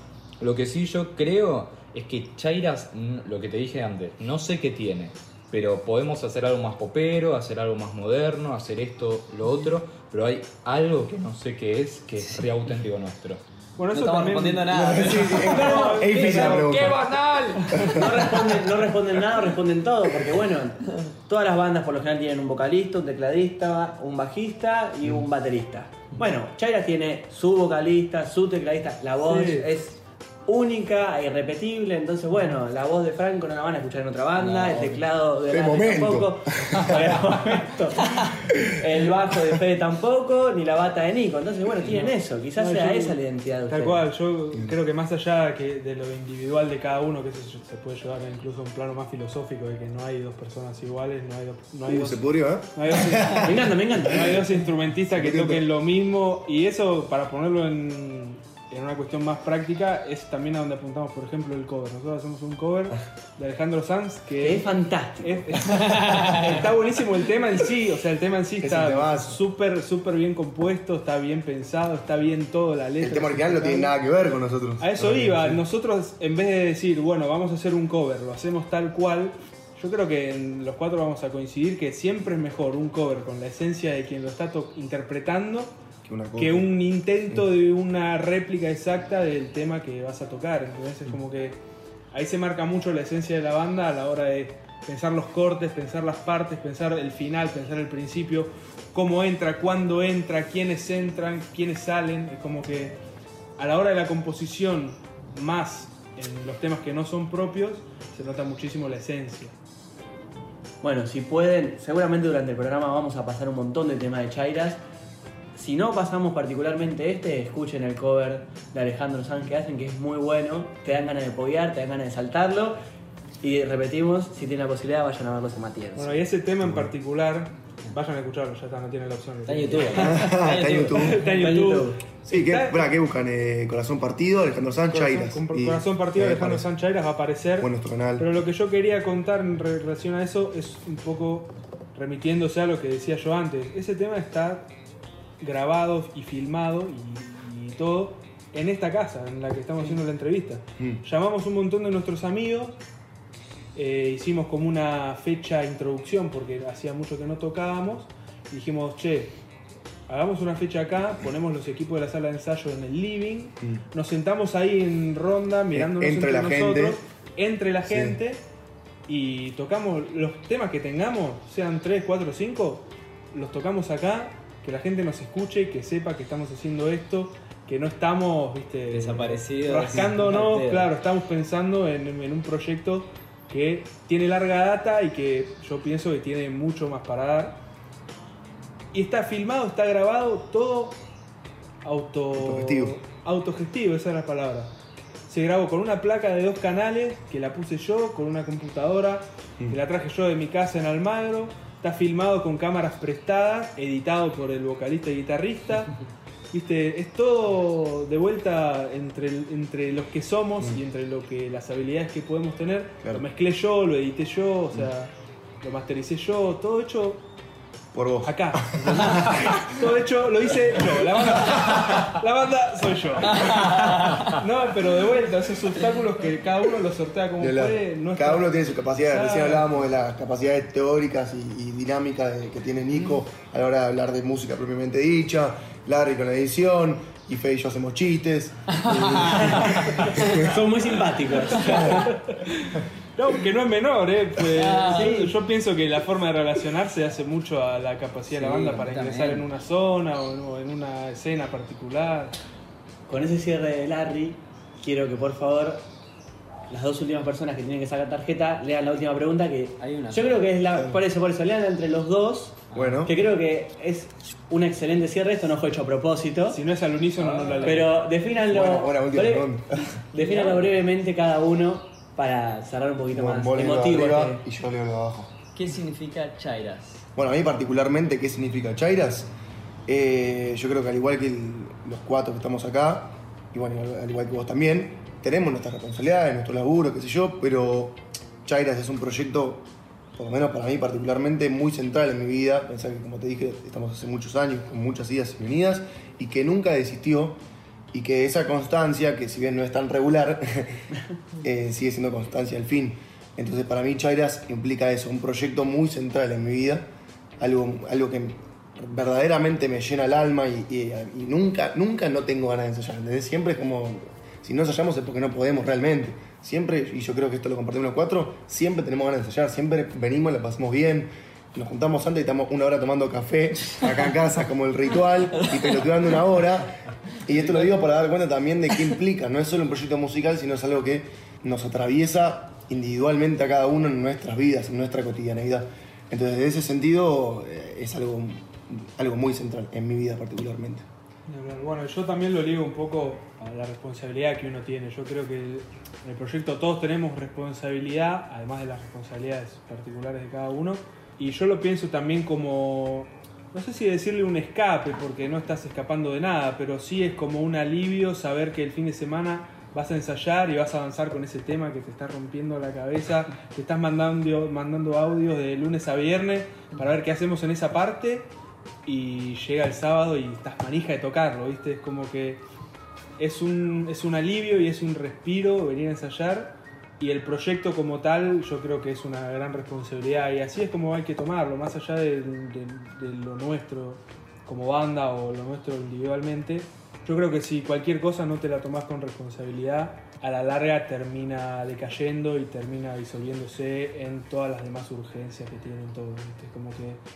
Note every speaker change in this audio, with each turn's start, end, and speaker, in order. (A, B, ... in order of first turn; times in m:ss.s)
0:00.4-0:13.4 A
0:13.8-0:16.9 B
0:13.9-0:15.6 C
0:14.7-0:17.0 D
0:15.3-0:16.7 E
0:16.6-0:18.0 A
0:17.8-0:18.2 D
0:17.9-0:44.0 E
0:29.2-0:29.7 B
0:34.4-0:35.0 C
0:35.5-0:37.3 D
0:41.9-0:53.5 B
0:51.9-0:54.3 D
0:53.4-0:54.5 E
0:54.0-1:14.0 B
0:55.1-0:55.7 D
1:04.4-1:06.5 E
1:08.6-1:09.4 D
1:13.0-1:15.6 D
1:14.8-1:25.7 B
1:26.0-1:26.7 D
1:26.4-1:31.6 B
1:32.1-1:43.0 B
1:43.6-1:49.6 B
1:50.8-1:54.8 E
1:55.6-2:02.8 E
2:03.4-2:06.2 E
2:06.0-2:10.3 B
2:06.6-2:06.9 D
2:09.5-2:11.2 C
2:10.0-2:11.3 D
2:10.9-2:12.9 B
2:11.2-2:12.0 E
2:12.2-2:16.7 D
2:14.9-2:24.7 B
2:17.6-2:18.3 D
2:25.4-2:32.8 B
2:33.8-2:39.4 B
2:40.1-2:48.4 B
2:45.7-2:47.0 D
2:47.9-2:48.2 D
2:49.1-3:07.6 B
2:58.9-3:00.9 C
3:08.9-3:11.0 B
3:11.8-3:14.7 B
3:12.3-3:13.0 D
3:15.3-3:26.0 B
3:26.5-3:37.2 B
3:37.9-3:39.7 D
3:38.2-3:49.7 B
3:41.2-3:42.0 D
3:43.3-3:44.2 C
3:47.4-4:00.5 D
3:58.8-3:59.4 C
3:59.3-4:02.1 E
4:01.8-4:12.4 B
4:04.5-4:05.3 C
4:04.8-4:05.3 E
4:08.3-4:09.5 C
4:13.1-4:15.8 E
4:16.7-4:26.6 E
4:19.8-4:20.5 C
4:20.7-4:21.0 D
4:22.7-4:23.0 C
4:22.7-4:23.2 D
4:26.5-4:27.9 B
4:27.2-4:27.9 C
4:27.6-4:29.5 E
4:28.4-4:30.0 D
4:30.1-4:34.4 E
4:30.2-4:30.7 C
4:33.1-4:35.3 D
4:35.6-4:37.1 C
4:37.2-4:39.3 D
4:39.9-4:57.4 D
4:57.9-5:00.8 D
5:01.4-5:06.9 D
5:07.4-5:40.9 D
5:25.4-5:25.8 C
5:27.3-5:27.9 C
5:41.3-6:08.3 B
6:08.9-6:12.4 B
6:13.2-6:37.0 B